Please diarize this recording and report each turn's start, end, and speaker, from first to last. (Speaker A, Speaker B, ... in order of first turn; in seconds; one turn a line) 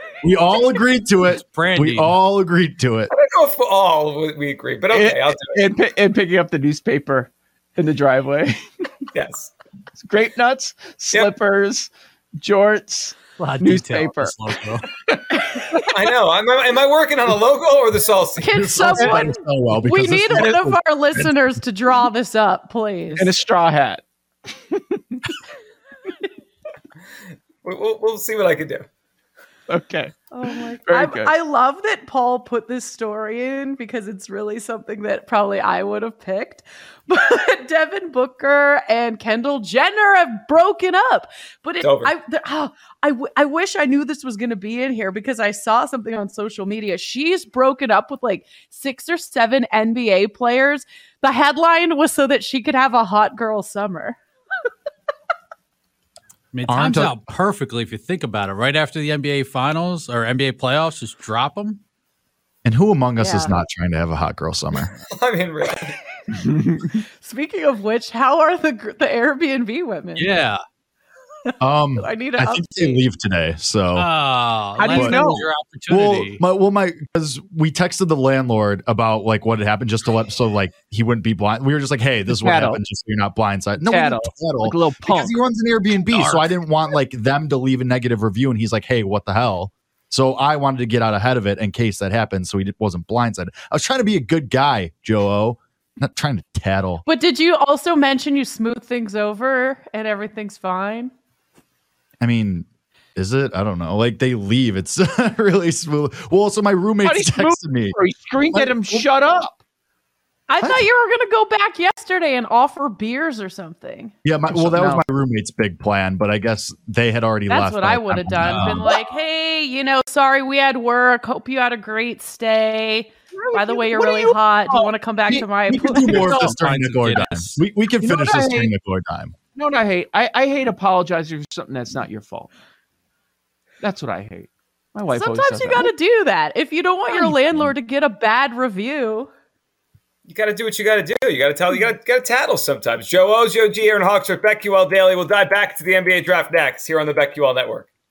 Speaker A: 0.2-3.1
Speaker B: 1.3-2.2
Speaker C: 3.1-5.7
Speaker D: 4.9-8.5
Speaker C: 9.1-9.5
Speaker D: 9.9-15.6
Speaker C: 11.1-11.4
Speaker B: 13.4-14.9
Speaker C: 15.9-18.6
Speaker E: 18.4-23.4
Speaker A: 18.5-21.4
Speaker D: 18.9-19.2
Speaker D: 23.2-25.4
Speaker C: 27.6-28.9
Speaker D: 29.7-31.3
Speaker E: 30.3-54.2
Speaker C: 41.8-42.1
Speaker B: 56.5-61.8
Speaker A: 56.7-57.1
Speaker A: 62.6-64.9
Speaker E: 63.2-63.6
Speaker C: 65.2-66.0
Speaker D: 66.3-67.0
Speaker E: 67.2-70.3
Speaker B: 70.2-70.6
Speaker E: 71.5-73.0
Speaker A: 71.6-74.1
Speaker B: 73.9-76.4
Speaker D: 74.8-75.5
Speaker A: 74.9-75.2
Speaker A: 75.9-97.0
Speaker D: 82.3-82.8
Speaker D: 83.8-85.4
Speaker D: 86.0-86.5
Speaker E: 97.0-101.1
Speaker A: 102.2-108.0
Speaker D: 107.0-109.6
Speaker A: 108.5-109.1
Speaker E: 110.5-114.1
Speaker A: 110.6-110.9
Speaker A: 114.2-119.0
Speaker D: 114.5-115.0
Speaker E: 117.5-126.3
Speaker B: 118.4-118.8
Speaker D: 123.3-125.5
Speaker A: 125.7-129.3
Speaker B: 126.0-127.6
Speaker D: 128.0-128.7
Speaker D: 129.6-132.5
Speaker D: 133.8-135.9
Speaker E: 135.1-139.3
Speaker A: 137.4-137.7
Speaker C: 140.3-147.9